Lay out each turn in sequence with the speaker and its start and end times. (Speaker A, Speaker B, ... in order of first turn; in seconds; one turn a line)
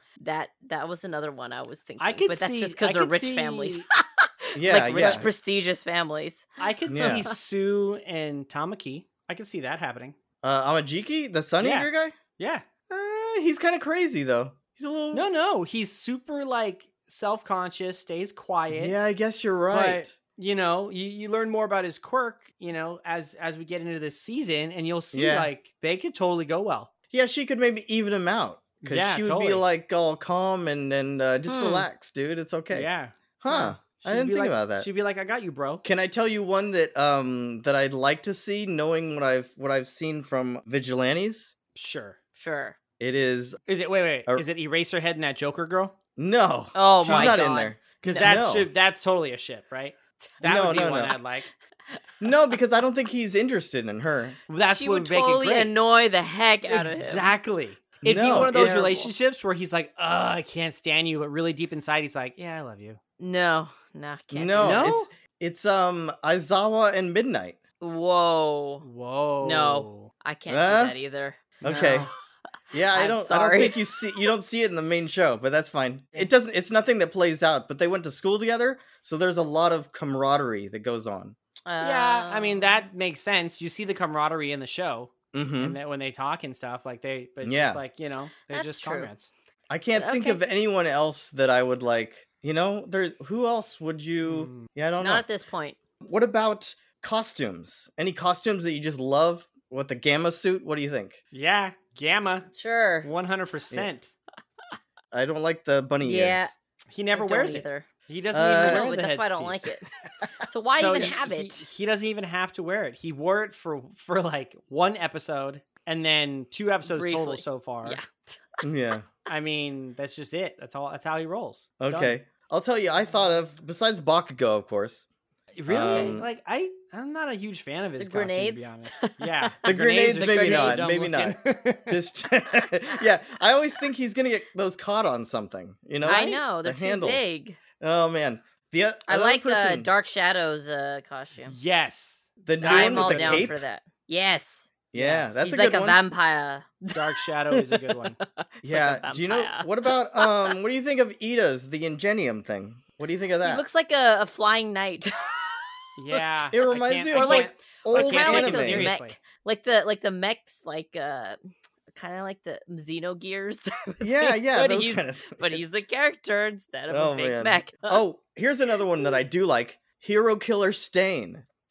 Speaker A: 0.2-7.3
Speaker B: 2.0-3.9
Speaker C: 4.5-5.3
Speaker B: 4.9-5.2
Speaker B: 6.6-10.1
Speaker C: 6.9-7.3
Speaker C: 10.4-12.2
Speaker B: 11.6-12.6
Speaker C: 12.9-15.3
Speaker B: 15.1-18.9
Speaker C: 18.7-20.1
Speaker B: 19.7-26.9
Speaker C: 25.1-25.5
Speaker C: 27.1-32.9
Speaker B: 28.8-29.6
Speaker A: 31.4-31.9
Speaker B: 32.7-33.1
Speaker C: 33.4-34.9
Speaker B: 34.0-35.8
Speaker C: 35.8-41.5
Speaker B: 41.8-42.1
Speaker A: 42.4-42.8
Speaker C: 43.0-43.6
Speaker B: 43.7-45.9
Speaker C: 46.2-48.7
Speaker A: 46.7-48.4
Speaker B: 47.0-47.4
Speaker B: 48.0-51.5
Speaker C: 50.4-51.2
Speaker C: 52.2-54.4
Speaker B: 54.5-55.7
Speaker A: 54.7-57.3
Speaker B: 56.7-63.0
Speaker C: 58.0-59.0
Speaker A: 63.2-64.9
Speaker C: 64.3-67.6
Speaker B: 64.6-65.1
Speaker A: 67.8-68.8
Speaker B: 68.8-70.1
Speaker A: 69.4-72.1
Speaker C: 70.5-70.9
Speaker C: 71.6-72.1
Speaker C: 72.7-81.3
Speaker A: 72.9-73.8
Speaker A: 81.7-82.7
Speaker B: 81.8-89.3
Speaker C: 85.3-85.8
Speaker C: 87.4-87.8
Speaker A: 88.5-89.1
Speaker C: 89.7-95.3
Speaker A: 89.9-90.4
Speaker B: 94.2-94.6
Speaker A: 95.0-95.8
Speaker C: 96.0-101.2
Speaker B: 101.3-102.5
Speaker A: 102.5-103.1
Speaker B: 103.0-104.1
Speaker C: 105.1-106.5
Speaker A: 106.0-106.5
Speaker B: 106.9-109.6
Speaker A: 107.1-107.9
Speaker C: 108.3-108.9
Speaker A: 108.5-111.7
Speaker B: 110.8-118.0
Speaker A: 116.8-118.6
Speaker C: 118.6-119.1
Speaker B: 119.3-122.2
Speaker C: 121.8-125.0
Speaker B: 125.6-132.0
Speaker C: 125.7-126.2
Speaker A: 125.8-126.2
Speaker A: 128.0-129.6
Speaker C: 129.6-137.3
Speaker A: 130.1-130.8
Speaker A: 136.0-137.6
Speaker C: 137.8-139.9
Speaker A: 139.1-141.5
Speaker B: 141.5-143.5
Speaker C: 142.4-143.6
Speaker A: 142.6-144.7
Speaker C: 144.9-146.0
Speaker B: 144.9-145.3
Speaker A: 145.4-150.6
Speaker B: 146.9-148.2
Speaker C: 148.6-153.6
Speaker A: 153.4-156.2
Speaker B: 156.0-159.2
Speaker C: 156.5-158.9
Speaker A: 157.1-161.4
Speaker A: 161.9-168.0
Speaker C: 164.0-165.6
Speaker C: 166.9-171.4